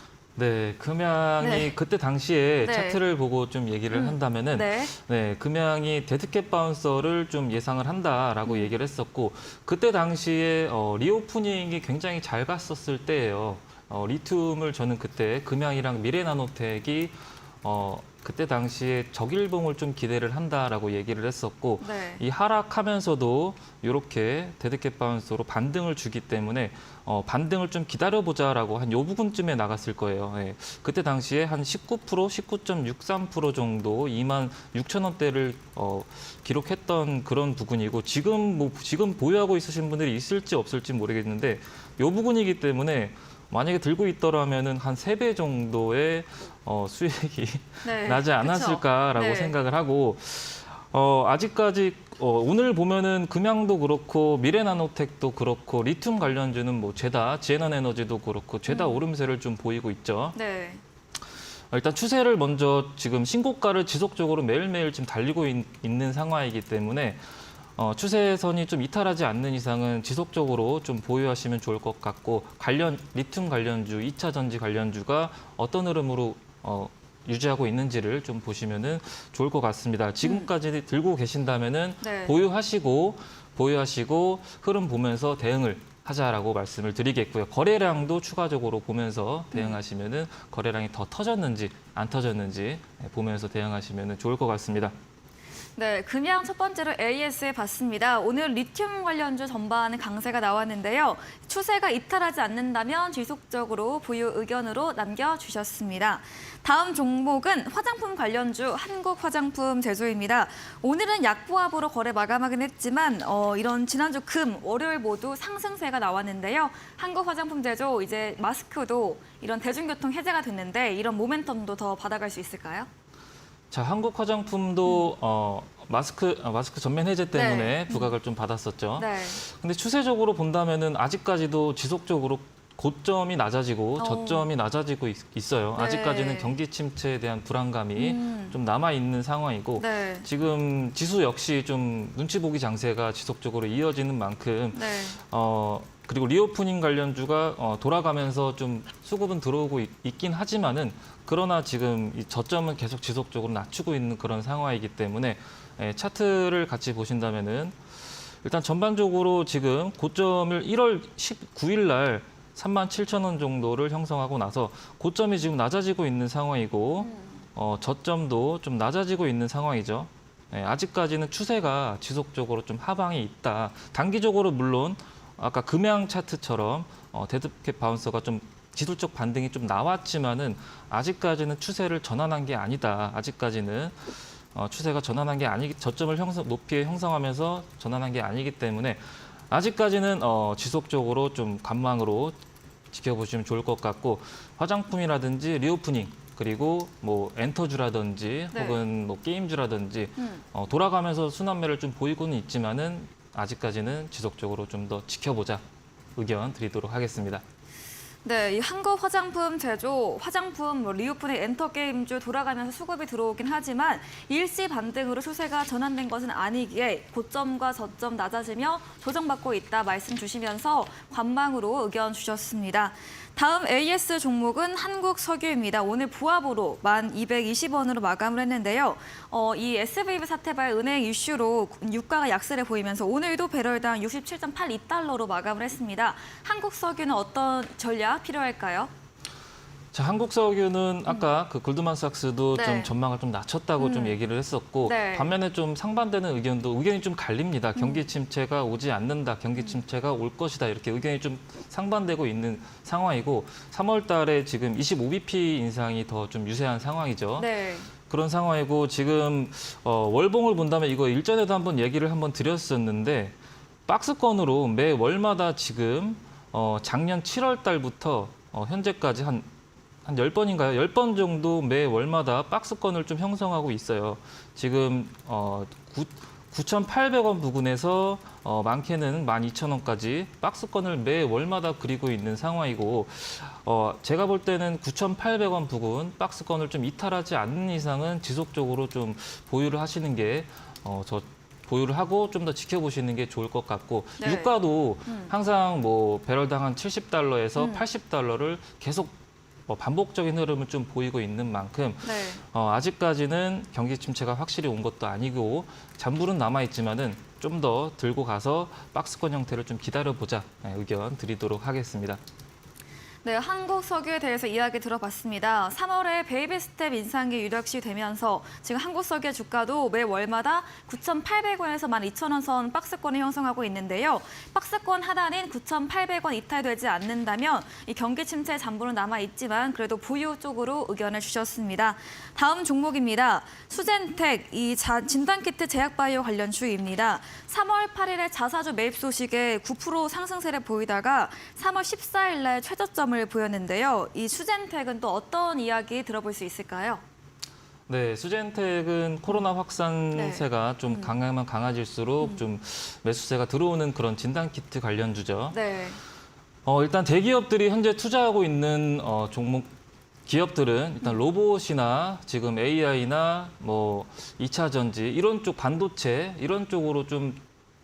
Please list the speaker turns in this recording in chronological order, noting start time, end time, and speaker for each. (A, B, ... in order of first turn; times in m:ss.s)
0:00.4-1:00.4 A
0:01.4-0:01.7 B
0:02.6-0:03.0 B
0:03.9-0:04.9 B
0:08.4-0:08.7 B
0:21.8-0:22.2 B
0:47.8-0:49.5 B
0:58.7-0:59.0 B
1:00.3-1:00.8 B
1:01.7-1:07.2 A
1:07.8-1:34.9 A
1:20.2-1:20.5 B
1:22.0-1:22.3 B
1:29.5-1:29.8 B
1:35.8-2:02.9 B
2:03.7-3:12.4 A
2:07.3-2:08.2 B
2:09.0-2:09.4 B
2:14.0-2:14.5 B
2:15.8-2:16.6 B
2:17.9-2:18.6 B
2:19.8-2:20.3 B
2:24.7-2:25.2 B
2:47.0-2:47.3 B
3:12.9-3:25.6 A
3:18.5-3:18.8 B
3:26.2-3:27.4 A
3:28.2-3:58.9 B
3:59.9-4:17.5 A
4:02.5-4:02.9 B
4:03.8-4:04.2 B
4:04.8-4:05.3 B
4:07.8-4:08.0 B
4:17.4-4:17.9 B
4:18.1-4:23.3 A
4:23.9-4:29.4 A
4:30.0-4:59.1 A
4:54.2-4:54.5 B
4:55.1-4:55.3 B
4:57.6-4:57.8 B
4:59.7-5:12.2 A
5:02.0-5:02.4 B
5:13.2-5:47.0 B
5:47.9-5:55.6 A
5:50.1-5:51.2 B
5:55.5-5:56.0 B
5:56.6-5:59.7 A
6:00.3-6:07.4 A